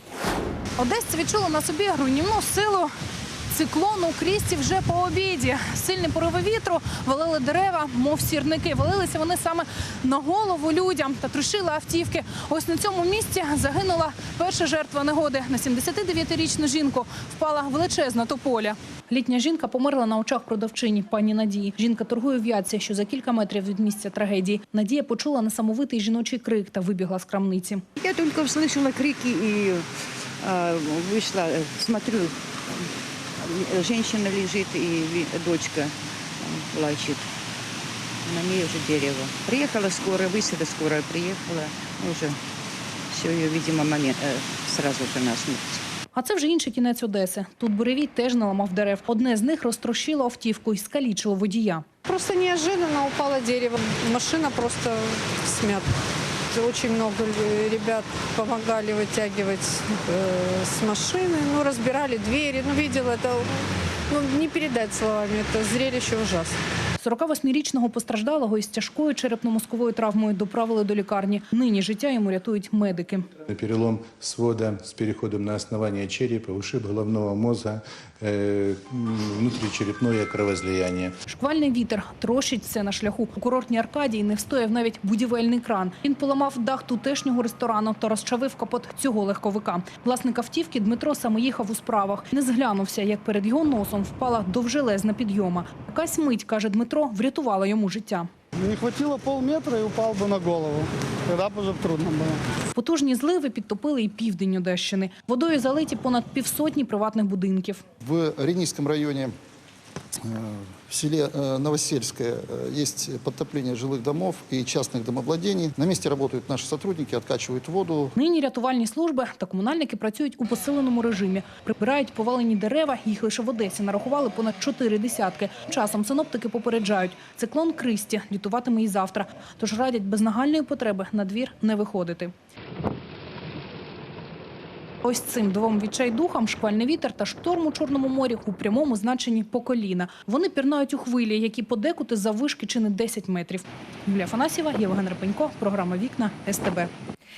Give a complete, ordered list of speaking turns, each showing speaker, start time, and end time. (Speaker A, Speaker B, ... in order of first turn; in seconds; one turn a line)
Speaker A: 0.8-2.9
Speaker A: 3.5-27.8
Speaker B: 28.0-29.9
Speaker B: 30.4-32.9
Speaker B: 33.4-37.3
Speaker B: 38.2-42.4
Speaker B: 43.1-45.8
Speaker A: 46.1-51.9
Speaker C: 52.0-55.9
Speaker C: 56.5-66.6
Speaker A: 67.0-73.3
Speaker D: 73.5-81.1
Speaker A: 81.3-98.3
Speaker E: 98.6-102.4
Speaker A: 102.7-107.8
Speaker F: 108.0-109.3
Speaker F: 110.2-118.1
Speaker A: 118.1-132.3
Speaker A: 135.0-146.9